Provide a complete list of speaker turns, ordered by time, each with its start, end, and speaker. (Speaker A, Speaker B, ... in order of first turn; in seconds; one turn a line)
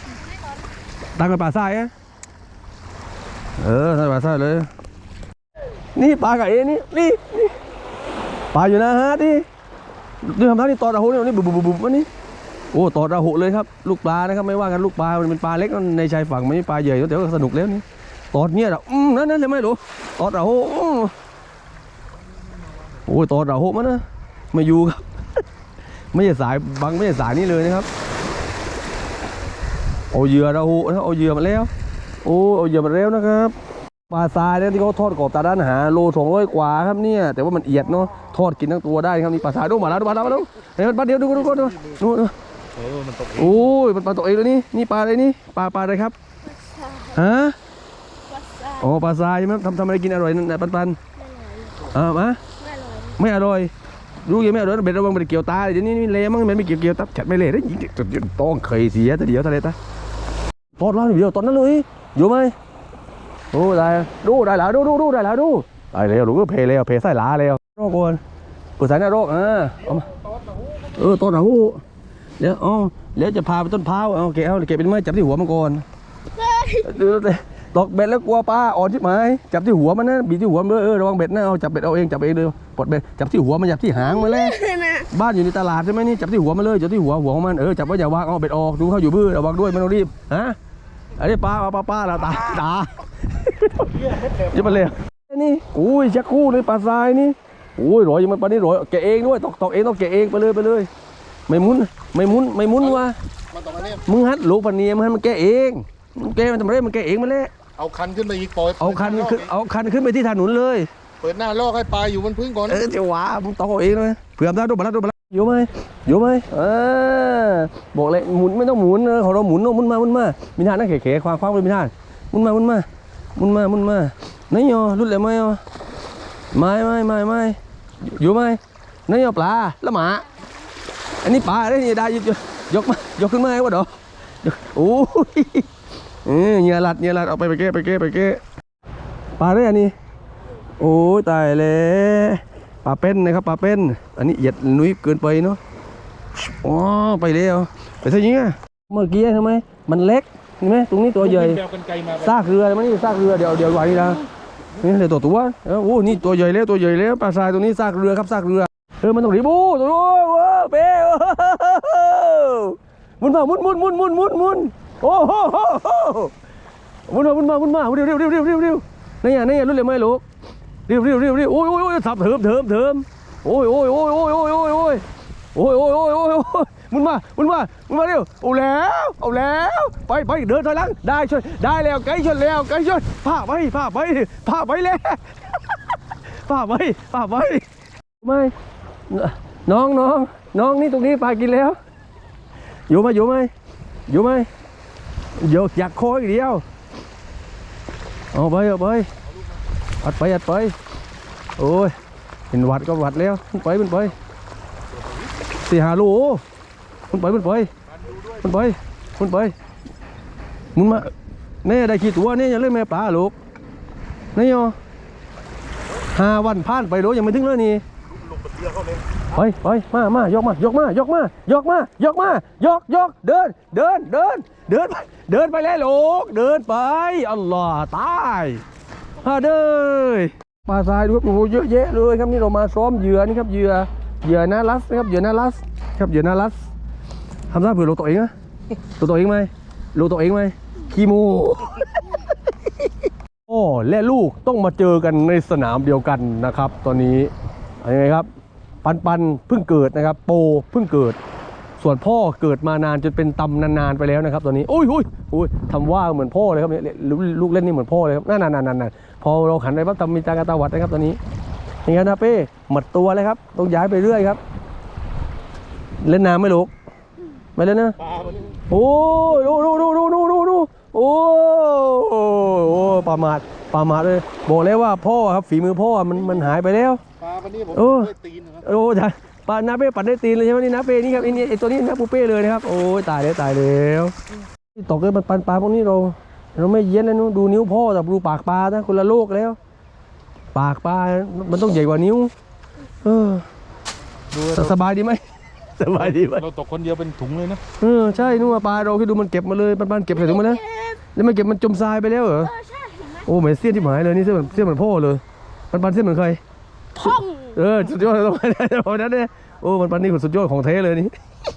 Speaker A: 1.2-1.9
Speaker A: 3.6-4.7
Speaker A: 5.9-7.6
Speaker A: 8.5-9.4
Speaker A: 10.2-12.1
Speaker A: 12.7-21.1
Speaker A: 23.1-25.1
Speaker A: 26.1-27.9
Speaker A: 30.1-31.7
Speaker A: 32.2-33.5
Speaker A: 34.1-42.3
Speaker B: 42.8-43.5
Speaker A: 43.3-46.1
Speaker C: 46.4-47.1
Speaker A: 47.1-47.6
Speaker C: 48.3-48.8
Speaker A: 48.8-51.0
Speaker C: 51.2-51.9
Speaker A: 51.9-52.4
Speaker C: 52.6-53.2
Speaker A: 53.2-53.7
Speaker A: 54.2-59.8
Speaker A: 60.8-62.5
Speaker A: 63.5-68.2
Speaker A: 68.8-70.1
Speaker A: 70.8-71.8
Speaker A: 72.4-75.8
Speaker C: 76.4-76.9
Speaker A: 76.8-90.6
Speaker C: 84.1-85.1
Speaker A: 91.2-100.9
Speaker A: 101.5-103.2
Speaker B: 103.5-104.0
Speaker A: 104.0-107.5
Speaker B: 107.8-109.5
Speaker A: 108.8-110.9
Speaker B: 111.2-112.8
Speaker A: 112.6-125.6
Speaker A: 126.5-130.3
Speaker A: 131.2-135.7
Speaker A: 136.2-138.4
Speaker A: 139.4-139.9
Speaker A: 140.8-145.6
Speaker A: 146.4-154.2
Speaker B: 151.4-152.2
Speaker A: 154.8-166.3
Speaker A: 167.1-170.2
Speaker A: 170.9-175.0
Speaker A: 175.6-185.8
Speaker A: 186.4-187.6
Speaker A: 188.2-188.5
Speaker A: 189.1-191.8
Speaker A: 192.9-193.5
Speaker A: 194.1-194.5
Speaker A: 195.4-196.6
Speaker A: 198.3-199.1
Speaker A: 200.0-200.8
Speaker A: 201.6-201.9
Speaker A: 202.5-204.2
Speaker A: 205.7-206.4
Speaker A: 207.1-207.7
Speaker A: 208.3-209.5
Speaker A: 210.8-211.1
Speaker A: 211.6-213.3
Speaker A: 214.3-214.8
Speaker A: 216.1-217.8
Speaker B: 218.4-218.9
Speaker A: 219.3-228.6
Speaker A: 229.2-236.6
Speaker A: 237.5-238.3
Speaker A: 239.0-242.0
Speaker A: 243.5-247.3
Speaker A: 247.8-248.3
Speaker A: 248.8-251.2
Speaker A: 251.8-261.2
Speaker A: 261.9-264.4
Speaker A: 266.0-266.7
Speaker A: 267.6-268.0
Speaker A: 268.7-277.0
Speaker B: 277.2-278.6
Speaker A: 277.7-284.1
Speaker A: 284.7-289.6
Speaker A: 290.5-292.3
Speaker A: 293.0-293.5
Speaker B: 294.3-294.7
Speaker A: 294.4-296.5
Speaker B: 296.2-297.6
Speaker A: 297.8-302.6
Speaker C: 300.3-301.0
Speaker C: 302.5-303.2
Speaker A: 303.2-306.4
Speaker C: 307.0-307.6
Speaker A: 307.1-311.1